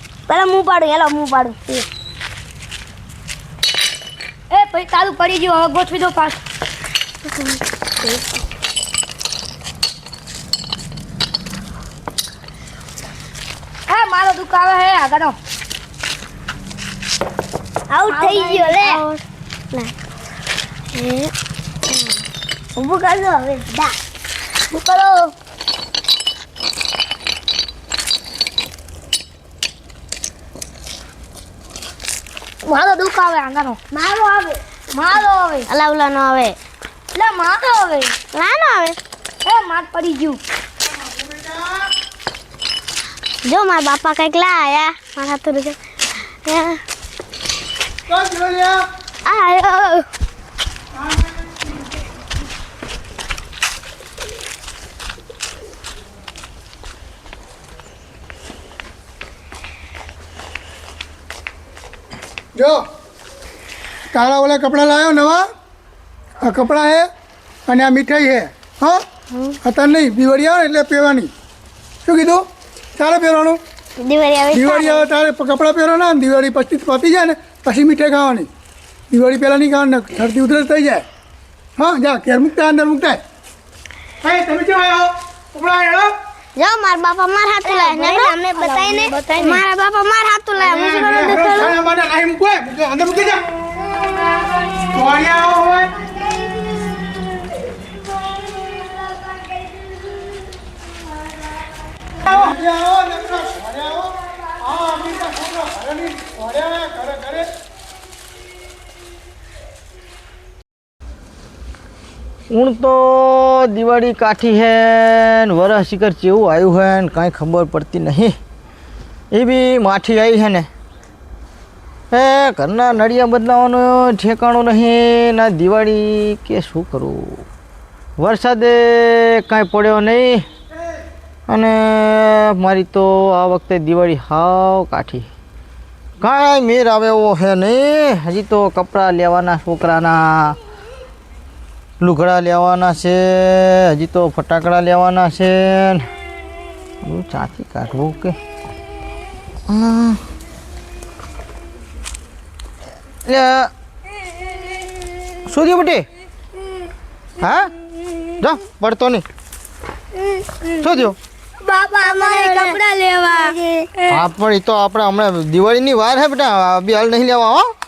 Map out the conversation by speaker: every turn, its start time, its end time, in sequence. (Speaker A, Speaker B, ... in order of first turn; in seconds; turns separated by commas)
Speaker A: 0.3-1.9, Speaker B: 4.5-6.4, Speaker B: 13.9-15.4, Speaker A: 17.9-19.0, Speaker C: 17.9-19.2, Speaker B: 18.0-19.0, Speaker C: 20.9-21.3, Speaker A: 22.8-24.0, Speaker A: 24.7-25.3, Speaker B: 32.7-33.8, Speaker A: 33.9-34.6, Speaker B: 34.9-35.7, Speaker C: 35.7-36.6, Speaker B: 37.1-38.1, Speaker C: 38.3-39.0, Speaker B: 39.5-40.4, Speaker D: 41.0-41.9, Speaker C: 43.5-45.8, Speaker C: 46.5-46.8, Speaker D: 48.1-48.8, Speaker C: 49.2-50.1, Speaker D: 51.0-51.6, Speaker D: 62.5-62.8, Speaker D: 64.1-65.5, Speaker D: 66.4-67.1, Speaker D: 67.7-69.0, Speaker C: 69.3-69.6, Speaker D: 69.7-71.3, Speaker D: 72.0-72.5, Speaker D: 73.0-73.6, Speaker C: 74.0-75.1, Speaker D: 74.5-78.5, Speaker D: 79.1-81.0, Speaker D: 81.8-83.2, Speaker D: 84.2-86.1, Speaker C: 86.6-91.7, Speaker B: 87.6-89.6, Speaker A: 88.3-89.2, Speaker D: 90.6-93.5, Speaker A: 93.8-95.0, Speaker D: 94.9-95.9, Speaker A: 96.0-97.5, Speaker A: 98.4-100.5, Speaker D: 102.2-107.5, Speaker E: 112.5-118.4, Speaker E: 119.3-120.7, Speaker E: 122.1-127.5, Speaker E: 128.2-130.4, Speaker E: 131.5-135.3, Speaker E: 136.2-140.6, Speaker E: 142.0-146.1, Speaker E: 147.0-148.4, Speaker E: 149.7-150.2, Speaker E: 153.2-153.7, Speaker E: 155.4-156.1, Speaker E: 157.4-157.7, Speaker E: 158.4-159.2, Speaker A: 160.4-160.9, Speaker E: 160.8-161.2, Speaker A: 161.7-163.9, Speaker B: 162.0-163.5, Speaker E: 164.1-167.7